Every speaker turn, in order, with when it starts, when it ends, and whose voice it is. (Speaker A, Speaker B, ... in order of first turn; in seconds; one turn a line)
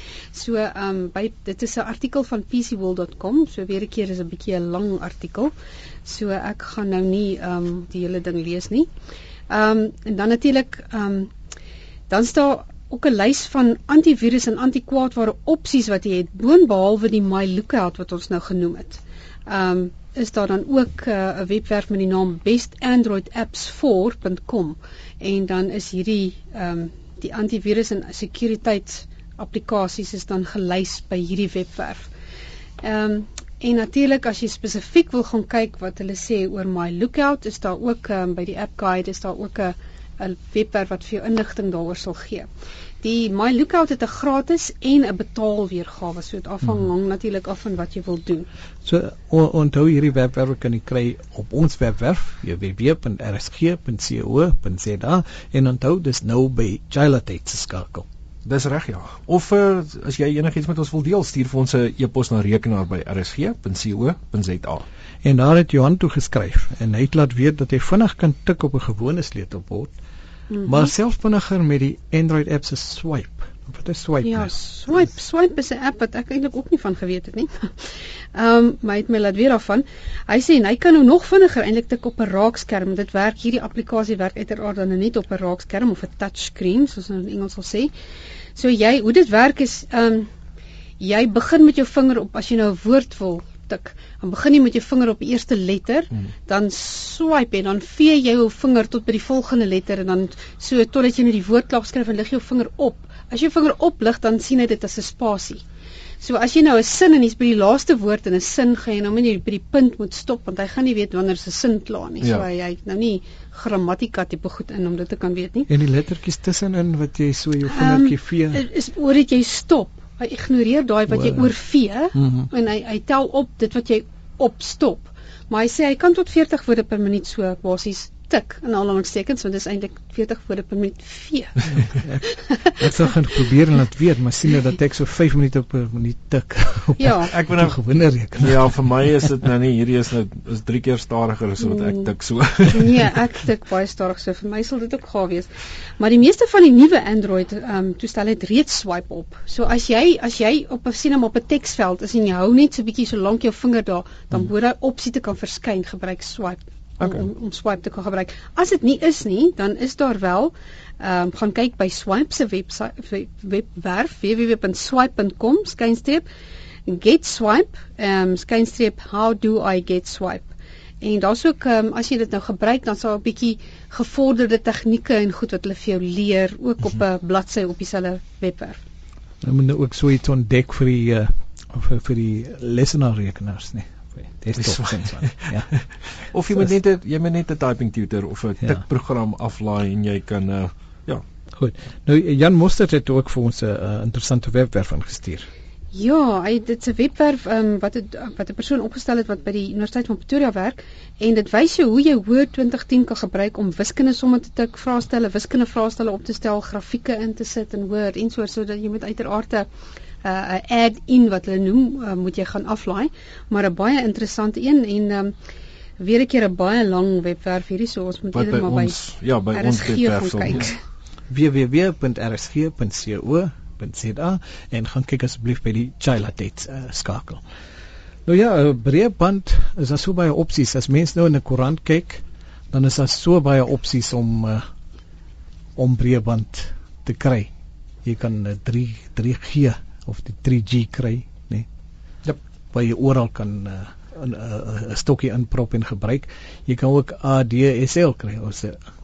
Speaker A: 0.3-5.5
Speaker A: 6.0-8.9
Speaker A: 9.5-11.3
Speaker A: 12.1-32.1
Speaker A: 32.8-42.5
Speaker A: 43.0-48.5
Speaker B: 48.8-58.0
Speaker C: 58.4-64.8
Speaker B: 65.2-69.9
Speaker A: 70.5-70.9
Speaker B: 70.6-74.5
Speaker A: 74.2-87.9
Speaker A: 88.5-90.3
Speaker A: 91.0-105.6
Speaker A: 106.2-115.7
Speaker C: 112.2-112.5
Speaker B: 115.7-118.6
Speaker A: 117.7-132.6
Speaker B: 121.1-121.5
Speaker B: 122.1-122.5
Speaker B: 131.7-139.2
Speaker A: 137.0-137.3
Speaker C: 137.3-143.0
Speaker A: 141.6-142.1
Speaker A: 142.7-166.2
Speaker C: 157.0-157.2
Speaker A: 166.9-178.8
Speaker B: 179.4-185.7
Speaker C: 184.6-185.7
Speaker C: 186.3-191.2
Speaker B: 191.6-195.5
Speaker A: 195.9-209.7
Speaker A: 210.2-215.3
Speaker A: 216.0-220.8
Speaker C: 218.3-220.7
Speaker B: 221.3-227.4
Speaker B: 228.2-234.6
Speaker B: 235.8-237.5
Speaker B: 238.0-241.7
Speaker B: 242.7-248.8